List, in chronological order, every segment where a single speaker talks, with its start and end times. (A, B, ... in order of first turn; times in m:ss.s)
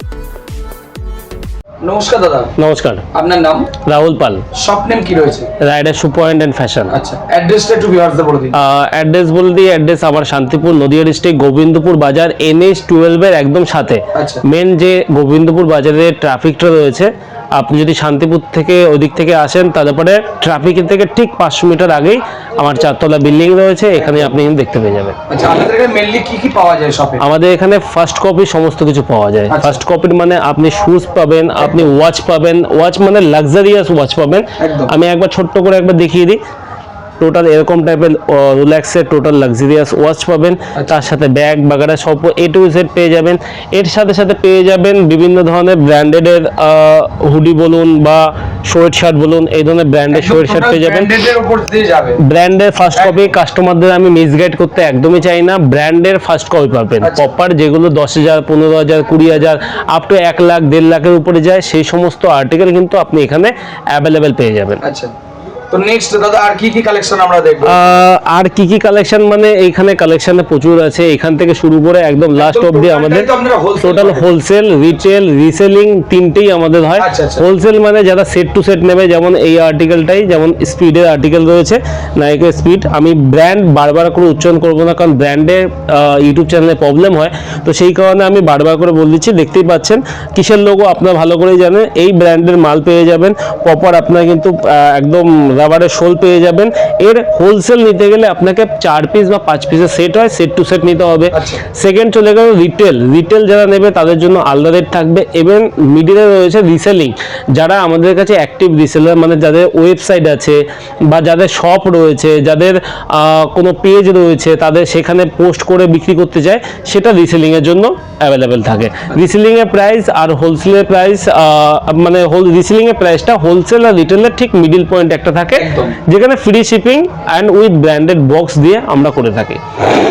0:01.8-0:02.5 A
0:02.6-0:03.0 B
0:03.1-0:03.7 A
0:03.7-0:04.4 B
0:04.5-0:05.5 A
0:05.6-0:07.0 B
0:06.9-0:08.6 A
0:08.5-0:25.2 B
0:14.1-0:14.4 A
0:24.0-0:24.4 A
0:25.3-0:27.2 A
0:27.2-0:36.4 B
0:29.5-0:29.8 A
0:31.6-0:31.9 A
0:34.6-0:34.9 A
0:37.2-0:51.1 B
0:40.7-0:41.0 A
0:50.1-0:52.2 A
0:52.2-1:04.8 B
0:52.9-0:53.4 A
0:57.0-0:57.3 A
1:04.8-1:05.1 A
1:05.7-1:07.9 A
1:07.6-2:09.8 B
1:12.4-1:14.3 A
1:17.0-1:17.4 A
1:41.3-1:41.6 A
2:05.5-2:06.0 A